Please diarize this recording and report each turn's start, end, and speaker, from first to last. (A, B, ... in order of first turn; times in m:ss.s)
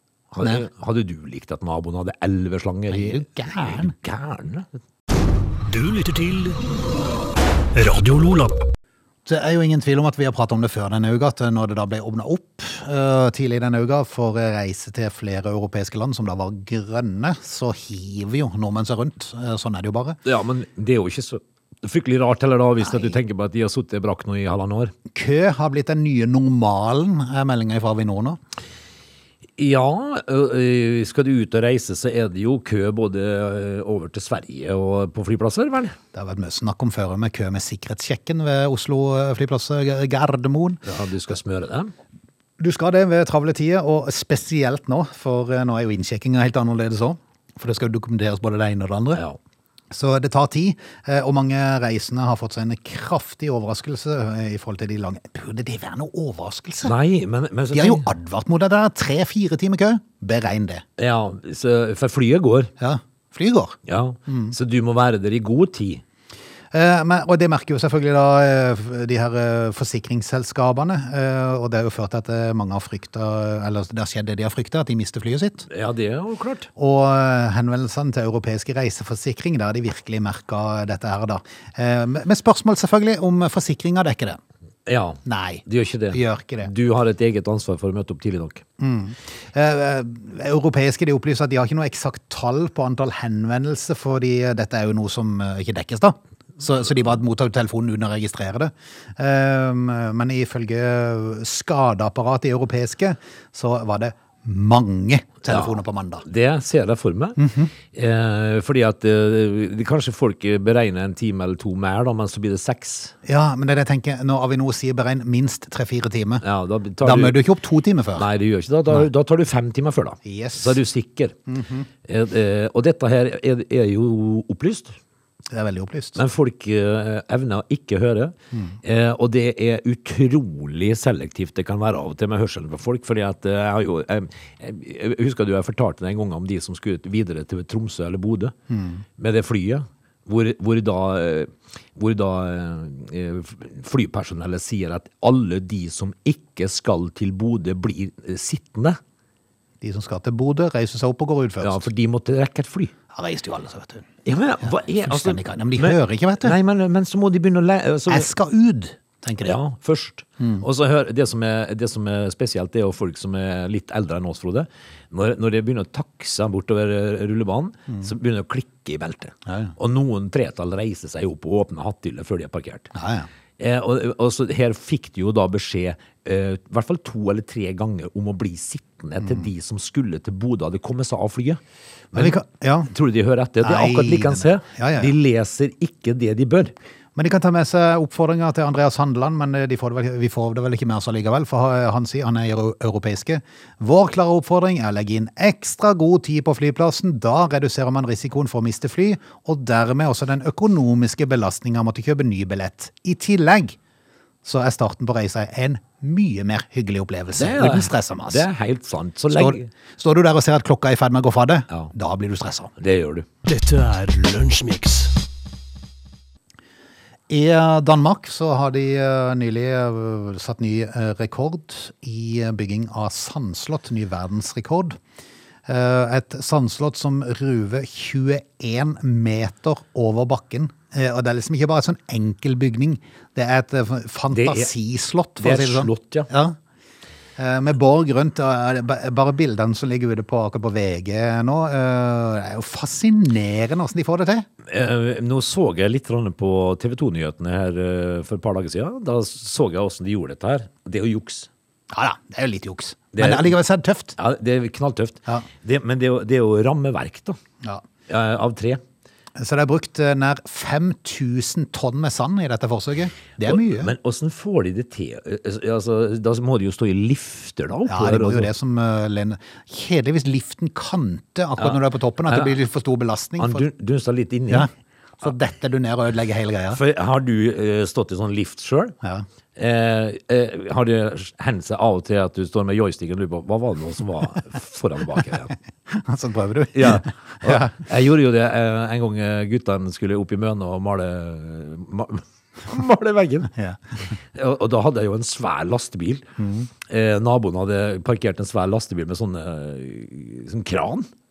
0:00.3-0:04.7 A
0:02.9-0:03.9 B
0:05.7-0:06.6 C
0:07.7-0:08.6 C
0:09.2-0:20.2 B
0:20.2-0:24.9 A
0:22.8-0:23.2 B
0:25.1-0:28.4 B
0:29.6-0:36.0 A
0:36.1-0:40.8 B
0:40.8-0:41.9 A
0:42.6-0:49.2 B
0:49.9-0:56.9 B
0:56.8-0:58.0 A
0:57.7-1:00.8 B
1:01.0-1:02.7 A
1:02.8-1:04.5 B
1:03.8-1:06.0 A
1:06.7-1:15.7 B
1:15.7-1:16.7 A
1:16.8-1:24.4 B
1:24.8-1:28.6 A
1:25.2-1:26.7 B
1:28.8-1:46.2 B
1:45.5-1:53.1 A
1:47.4-1:47.7 B
1:53.2-1:56.4 B
1:56.4-1:57.4 A
1:57.0-1:58.3 B
1:58.2-2:01.4 A
2:00.2-2:00.8 B
2:01.5-2:01.9 B
2:02.0-2:05.0 A
2:05.5-2:06.2 B
2:06.2-2:18.5 A
2:18.7-2:19.0 B
2:19.2-2:29.0 A
2:29.8-2:31.9 B
2:31.6-2:32.9 A
2:33.1-2:34.1 B
2:34.2-2:38.3 A
2:34.6-2:36.6 B
2:38.1-2:39.6 B
2:39.4-2:52.9 A
2:40.4-2:40.6 B
2:49.4-2:49.7 B
2:52.9-2:53.3 B
2:53.6-3:01.6 A
3:02.1-3:02.4 A
3:02.1-3:02.9 B
3:02.9-3:06.7 A
3:03.6-3:05.1 B
3:07.2-3:23.8 B
3:24.4-3:28.4 B
3:27.3-3:29.7 A
3:29.3-3:32.7 B
3:32.8-3:33.3 A
3:33.4-3:35.1 C
3:37.3-3:45.0 B
3:45.7-3:56.6 B
3:54.3-3:54.7 A
3:55.4-3:56.3 A
3:57.4-4:04.4 B
4:04.6-4:11.5 A
4:11.9-4:14.2 B
4:13.1-4:13.5 A
4:14.2-4:17.4 A
4:18.1-4:18.8 A
4:19.4-4:23.9 B
4:23.4-4:28.5 A
4:27.9-4:33.7 B
4:31.6-4:32.5 A
4:33.4-4:34.7 A
4:34.5-4:36.8 B
4:36.7-4:39.0 A
4:39.6-4:45.5 A
4:45.9-4:47.8 B
4:46.7-4:53.5 A
4:53.5-4:53.8 B
4:54.3-4:56.2 A
4:56.4-4:56.7 B
4:56.8-5:01.1 A